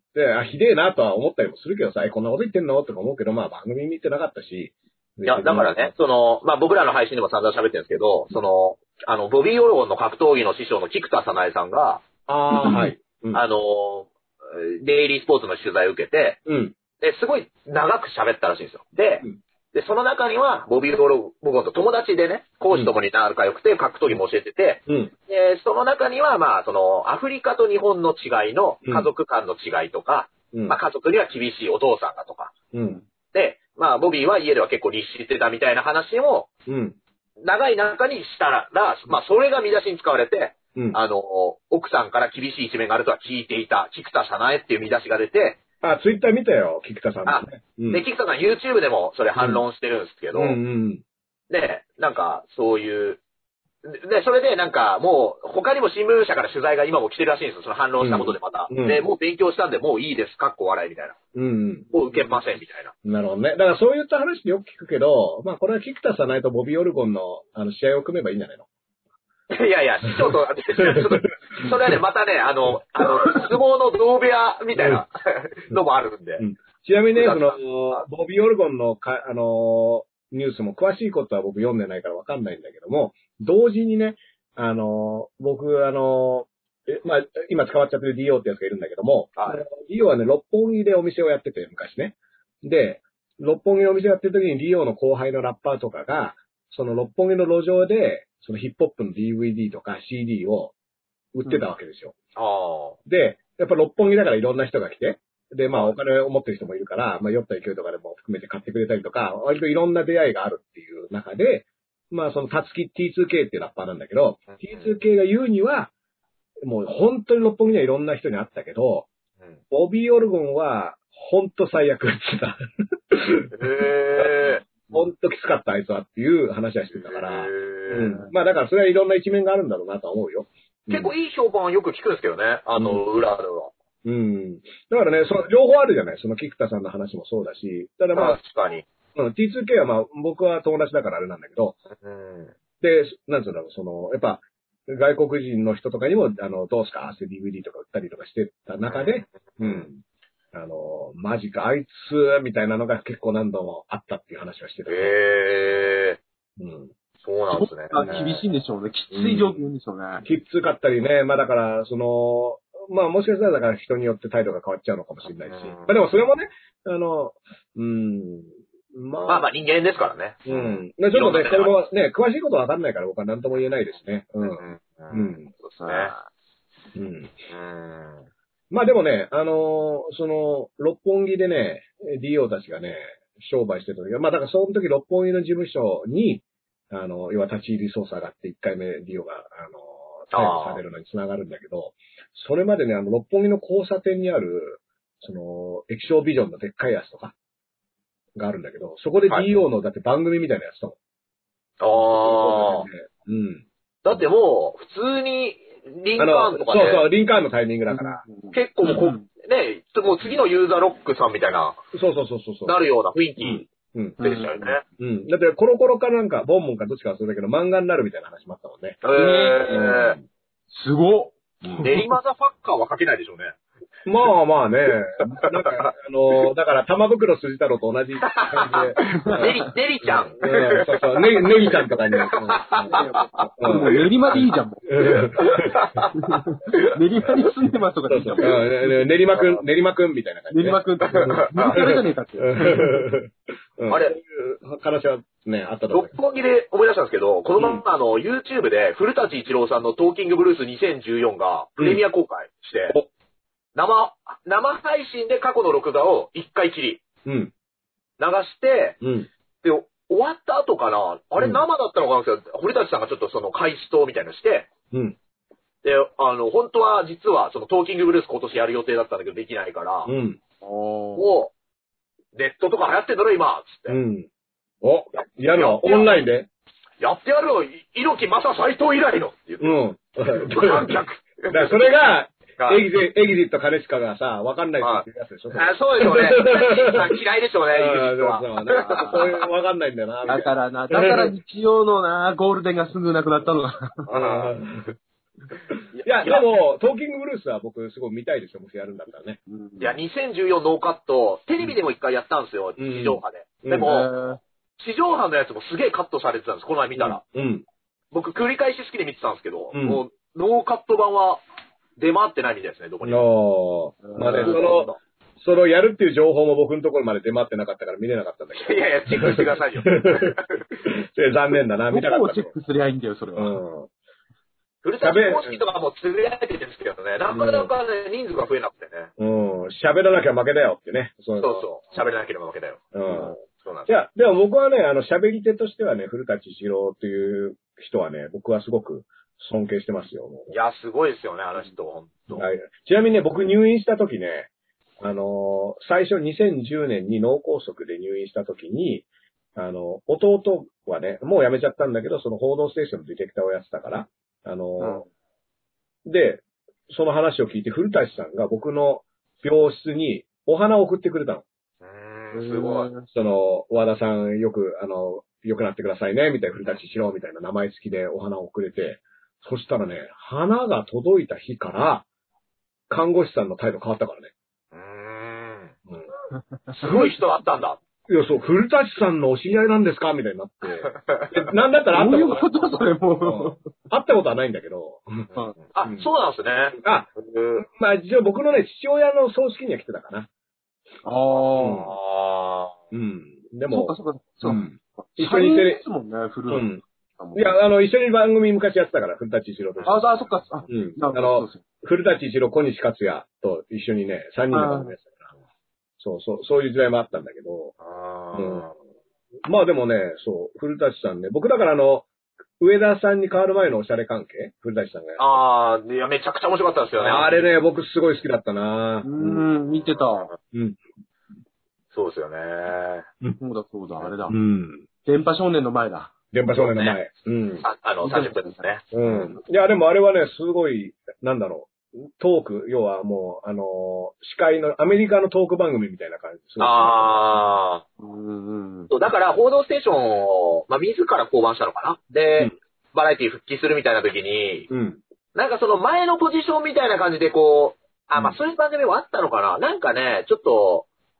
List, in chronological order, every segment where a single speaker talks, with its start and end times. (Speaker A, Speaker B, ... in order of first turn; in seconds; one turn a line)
Speaker A: 0.1-5.9
Speaker B: 5.2-12.0
Speaker A: 12.3-13.4
Speaker C: 12.6-12.9
Speaker B: 12.7-16.4
Speaker A: 16.5-16.7
Speaker B: 17.0-32.5
Speaker A: 24.9-25.1
Speaker A: 30.5-30.8
Speaker A: 32.7-33.0
Speaker B: 33.3-36.5
Speaker A: 36.7-37.0
Speaker B: 37.4-45.6
Speaker A: 45.8-48.0
Speaker B: 47.2-50.6
Speaker A: 49.4-49.6
Speaker A: 50.3-51.0
Speaker B: 51.5-53.2
Speaker B: 53.8-61.2
Speaker A: 58.0-59.0
Speaker A: 61.3-61.9
Speaker B: 61.9-62.9
Speaker A: 63.0-68.7
Speaker B: 69.5-76.4
Speaker A: 70.1-72.0
Speaker A: 74.7-75.0
Speaker A: 76.4-100.7
Speaker B: 77.2-78.0
Speaker B: 89.4-89.6
Speaker A: 101.3-102.2
Speaker B: 102.3-103.0
Speaker A: 103.0-115.9
Speaker B: 114.5-114.9
Speaker A: 116.6-119.1
Speaker A: 119.7-122.6
Speaker A: 123.1-123.5
Speaker B: 123.5-124.7
Speaker A: 124.9-131.1
Speaker B: 126.9-128.2
Speaker B: 130.9-133.7
Speaker A: 132.8-133.0
Speaker A: 134.0-138.4
Speaker B: 138.1-138.8
Speaker A: 139.1-141.8
Speaker B: 141.9-142.5
Speaker A: 142.8-150.0
Speaker B: 148.9-149.9
Speaker A: 150.5-155.1
Speaker B: 154.9-156.2
Speaker A: 156.6-156.9
Speaker B: 157.2-158.4
Speaker C: 157.5-160.2
Speaker A: 159.1-159.4
Speaker A: 160.2-169.5
Speaker B: 165.4-165.9
Speaker B: 169.3-171.8
Speaker A: 170.5-175.5
Speaker B: 174.4-176.1
Speaker C: 175.8-176.2
Speaker A: 176.9-177.3
Speaker B: 177.5-178.3
Speaker A: 178.7-197.3
Speaker B: 190.3-190.8
Speaker A: 198.3-200.9
Speaker B: 201.8-202.9
Speaker A: 201.9-204.2
Speaker B: 204.0-207.1
Speaker A: 206.2-208.2
Speaker C: 207.9-209.2
Speaker B: 208.5-211.8
Speaker A: 211.9-212.8
Speaker B: 212.7-213.7
Speaker A: 213.4-214.2
Speaker C: 214.2-214.8
Speaker B: 214.2-214.8
Speaker A: 215.0-219.0
Speaker B: 219.0-220.2
Speaker C: 219.1-219.8
Speaker A: 219.7-220.2
Speaker C: 220.7-222.0
Speaker A: 221.6-222.0
Speaker B: 221.8-223.6
Speaker A: 224.1-233.0
Speaker B: 225.3-225.9
Speaker B: 228.2-234.0
Speaker C: 229.1-229.7
Speaker C: 232.9-235.2
Speaker A: 233.6-235.8
Speaker B: 235.0-236.9
Speaker C: 236.1-239.1
Speaker A: 238.1-246.1
Speaker C: 240.5-243.1
Speaker B: 241.1-241.8
Speaker B: 243.9-244.1
Speaker B: 245.9-253.0
Speaker A: 247.6-247.8
Speaker B: 253.8-257.0
Speaker A: 257.2-257.5
Speaker B: 258.2-259.0
Speaker A: 259.0-259.3
Speaker B: 259.6-264.7
Speaker A: 261.4-261.6
Speaker B: 265.8-270.1
Speaker A: 270.1-270.4
Speaker C: 270.6-271.3
Speaker B: 271.1-271.5
Speaker B: 272.3-274.0
Speaker A: 273.9-274.3
Speaker A: 274.8-276.5
Speaker B: 275.5-276.2
Speaker B: 277.0-279.8
Speaker A: 279.6-287.2
Speaker B: 280.3-282.0
Speaker B: 282.6-282.8
Speaker B: 284.8-289.4
Speaker A: 287.7-291.3
Speaker C: 288.8-289.2
Speaker C: 290.2-294.1
Speaker B: 294.1-294.6
Speaker A: 294.1-294.9
Speaker B: 295.9-296.5
Speaker A: 296.0-299.4
Speaker C: 299.5-300.0
Speaker B: 299.8-304.1
Speaker A: 302.8-303.9
Speaker C: 303.8-304.4
Speaker B: 304.8-307.2
Speaker A: 306.9-307.6
Speaker B: 308.1-311.4
Speaker A: 309.7-310.0
Speaker B: 312.0-313.3
Speaker A: 313.0-322.5
Speaker C: 314.0-314.7
Speaker B: 314.2-315.0
Speaker B: 318.5-320.7
Speaker C: 321.9-323.6
Speaker A: 323.4-323.9
Speaker B: 324.8-329.1
Speaker A: 325.0-325.6
Speaker A: 327.3-327.7
Speaker A: 329.2-331.7
Speaker B: 331.4-333.9
Speaker A: 332.9-333.4
Speaker A: 333.9-340.5
Speaker B: 340.5-342.5
Speaker A: 342.3-355.0
Speaker C: 354.8-355.1
Speaker A: 356.0-361.4
Speaker B: 361.8-362.9
Speaker C: 362.3-363.1
Speaker A: 363.1-372.1
Speaker A: 372.9-374.3
Speaker B: 374.7-375.7
Speaker B: 376.8-377.8
Speaker A: 378.1-382.4
Speaker B: 380.8-381.4
Speaker C: 381.9-383.7
Speaker A: 383.2-385.3
Speaker B: 385.7-387.6
Speaker A: 386.8-390.3
Speaker C: 391.0-391.9
Speaker A: 391.6-391.9
Speaker B: 391.8-392.8
Speaker A: 392.9-395.8
Speaker C: 393.7-397.6
Speaker A: 396.5-396.8
Speaker A: 397.3-405.2
Speaker C: 399.9-401.6
Speaker C: 404.5-404.9
Speaker A: 406.0-407.7
Speaker B: 407.8-408.7
Speaker A: 408.3-408.6
Speaker A: 409.4-412.1
Speaker A: 412.6-415.4
Speaker B: 415.2-417.4
Speaker A: 417.0-419.4
Speaker C: 419.0-420.3
Speaker B: 420.0-420.3
Speaker A: 420.5-420.8
Speaker B: 421.9-423.1
Speaker C: 423.4-424.4
Speaker A: 424.3-424.8
Speaker C: 425.0-426.1
Speaker A: 426.3-427.6
Speaker B: 426.5-427.0
Speaker B: 427.6-429.3
Speaker C: 428.0-428.7
Speaker A: 428.9-437.4
Speaker B: 436.6-437.8
Speaker C: 438.0-438.9
Speaker B: 438.9-444.7
Speaker A: 444.7-445.0
Speaker B: 445.3-450.9